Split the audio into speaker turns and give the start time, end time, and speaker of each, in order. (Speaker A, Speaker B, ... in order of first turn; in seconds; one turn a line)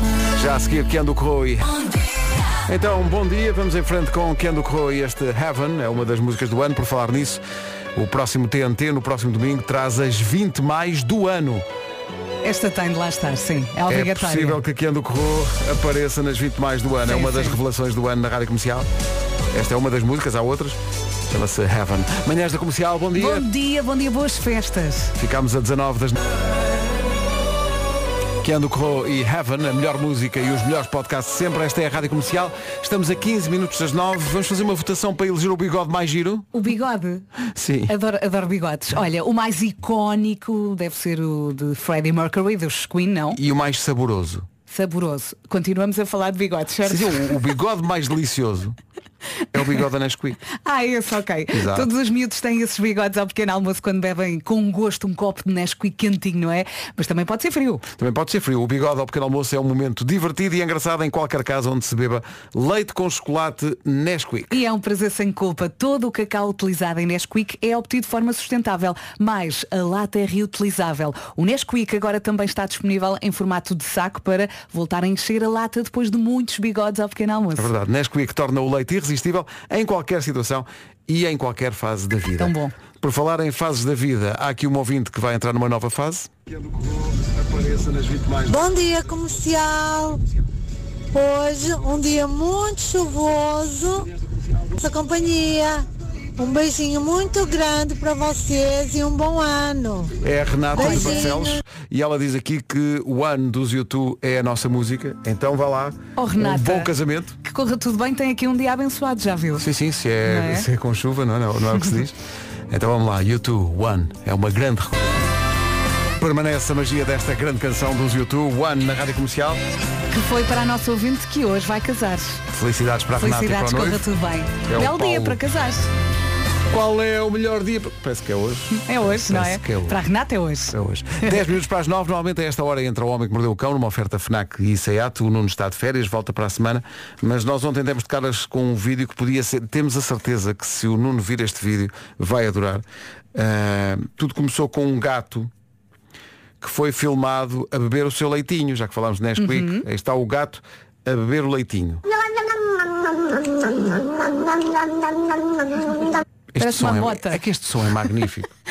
Speaker A: 0.3-1.7
Speaker A: 2.7-7.4
Speaker A: 8.0-11.6
Speaker B: 12.4-14.6
Speaker A: 13.9-18.9
Speaker B: 17.0-17.6
Speaker A: 19.5-20.8
Speaker A: 21.3-23.4
Speaker B: 23.1-25.1
Speaker A: 25.2-26.2
Speaker A: 28.4-36.5
Speaker B: 36.5-37.2
Speaker A: 37.6-37.9
Speaker B: 37.9-43.4
Speaker A: 43.4-44.4
Speaker B: 44.7-47.3
Speaker A: 46.9-48.7
Speaker A: 49.5-50.4
Speaker B: 50.5-57.8
Speaker A: 51.5-51.9
Speaker A: 58.0-64.5
Speaker B: 64.5-77.7
Speaker A: 77.5-86.3
Speaker B: 82.4-82.7
Speaker A: 86.9-88.5
Speaker C: 88.5-90.2
Speaker C: 91.1-94.1
Speaker C: 94.8-95.8
Speaker C: 96.4-100.1
Speaker A: 100.2-107.3
Speaker B: 100.7-101.3
Speaker C: 100.7-101.6
Speaker B: 106.2-106.9
Speaker B: 107.4-109.6
Speaker A: 109.6-112.1
Speaker B: 110.2-110.7
Speaker A: 112.7-115.0
Speaker A: 116.2-119.6
Speaker B: 120.1-122.4
Speaker A: 122.5-124.0
Speaker B: 123.2-125.9
Speaker A: 124.7-125.4
Speaker A: 126.7-130.0
Speaker B: 128.7-131.3
Speaker A: 130.7-142.8
Speaker A: 143.3-145.5
Speaker A: 146.6-152.0
Speaker B: 149.4-149.8
Speaker A: 156.5-158.5
Speaker B: 156.6-157.4